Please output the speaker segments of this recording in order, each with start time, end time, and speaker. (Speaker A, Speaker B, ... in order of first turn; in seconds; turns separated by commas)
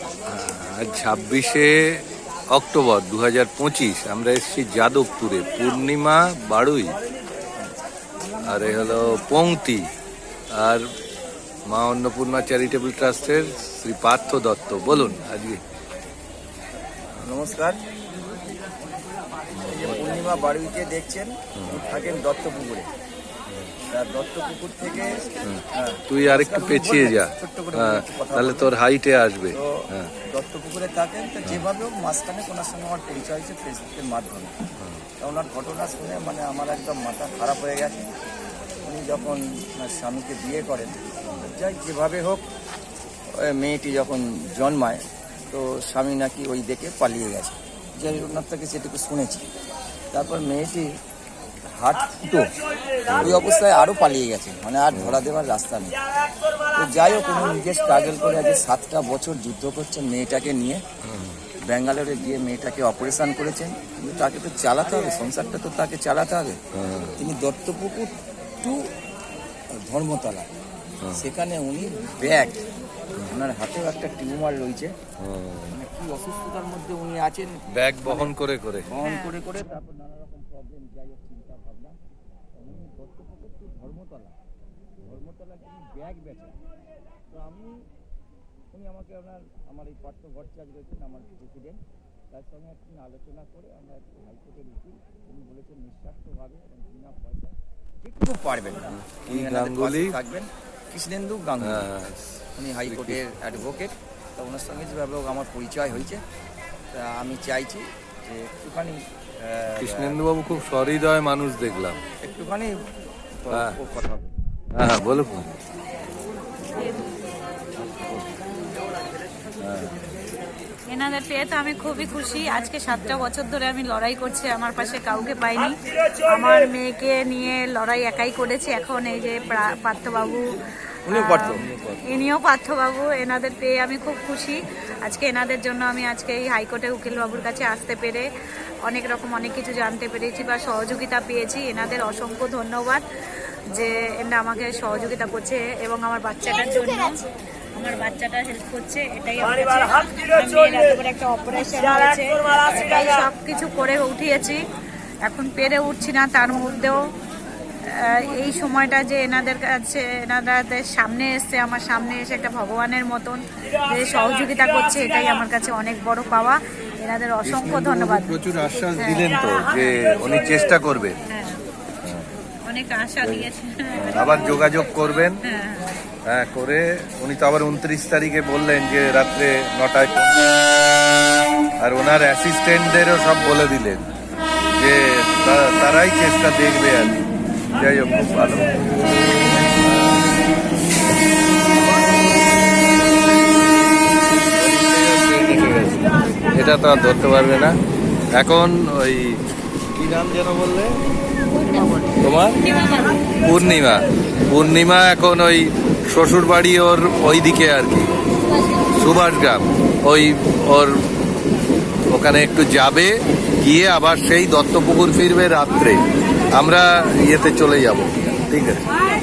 Speaker A: 0.3-2.0, Speaker A: 2.5-7.0, Speaker B: 7.6-7.8, Speaker A: 8.5-9.9, Speaker A: 10.5-10.9, Speaker A: 11.7-15.6, Speaker B: 17.2-17.8, Speaker A: 19.6-20.2, Speaker B: 19.7-22.9, Speaker A: 21.6-21.8, Speaker B: 23.9-28.7, Speaker A: 25.4-30.1, Speaker B: 29.5-34.5, Speaker B: 35.2-38.1, Speaker B: 38.8-42.5, Speaker B: 43.4-49.5, Speaker B: 50.1-50.9, Speaker B: 51.7-52.5, Speaker A: 53.1-53.5, Speaker B: 53.1-56.0, Speaker A: 54.9-55.2, Speaker B: 56.7-60.8, Speaker A: 61.0-61.4, Speaker B: 61.7-66.6, Speaker A: 66.7-67.2, Speaker B: 67.2-68.9, Speaker B: 69.8-70.5, Speaker B: 71.1-72.6, Speaker B: 73.2-74.9, Speaker A: 75.2-75.8, Speaker B: 75.7-78.4, Speaker A: 77.8-78.9, Speaker B: 78.9-82.0, Speaker C: 79.0-79.4, Speaker B: 82.5-84.4, Speaker B: 85.0-86.6, Speaker B: 87.3-87.8, Speaker B: 88.7-101.9, Speaker A: 99.0-100.2, Speaker A: 101.6-103.2, Speaker B: 102.5-106.2, Speaker B: 106.9-110.2, Speaker A: 109.8-112.0, Speaker B: 112.2-112.7, Speaker B: 113.4-114.3, Speaker A: 113.5-113.8, Speaker A: 114.8-115.5, Speaker A: 119.6-120.0, Speaker C: 120.9-130.4, Speaker B: 131.1-131.6, Speaker C: 131.1-138.3, Speaker A: 131.5-132.0, Speaker C: 138.9-143.1, Speaker C: 143.7-154.6, Speaker A: 147.9-148.1, Speaker C: 155.3-157.0, Speaker C: 157.9-168.4, Speaker A: 167.4-171.2, Speaker C: 168.9-169.3, Speaker C: 171.3-171.6, Speaker A: 172.0-172.3, Speaker C: 172.7-174.7, Speaker A: 173.2-175.4, Speaker C: 175.4-175.9, Speaker A: 176.3-180.6, Speaker A: 181.8-184.1, Speaker A: 184.7-188.9, Speaker A: 189.7-190.2, Speaker A: 194.3-197.8, Speaker A: 198.3-199.4, Speaker A: 199.9-200.9, Speaker A: 202.0-202.6, Speaker C: 202.8-203.1, Speaker A: 203.3-208.1, Speaker A: 208.9-211.0, Speaker A: 212.1-216.0, Speaker A: 216.5-218.8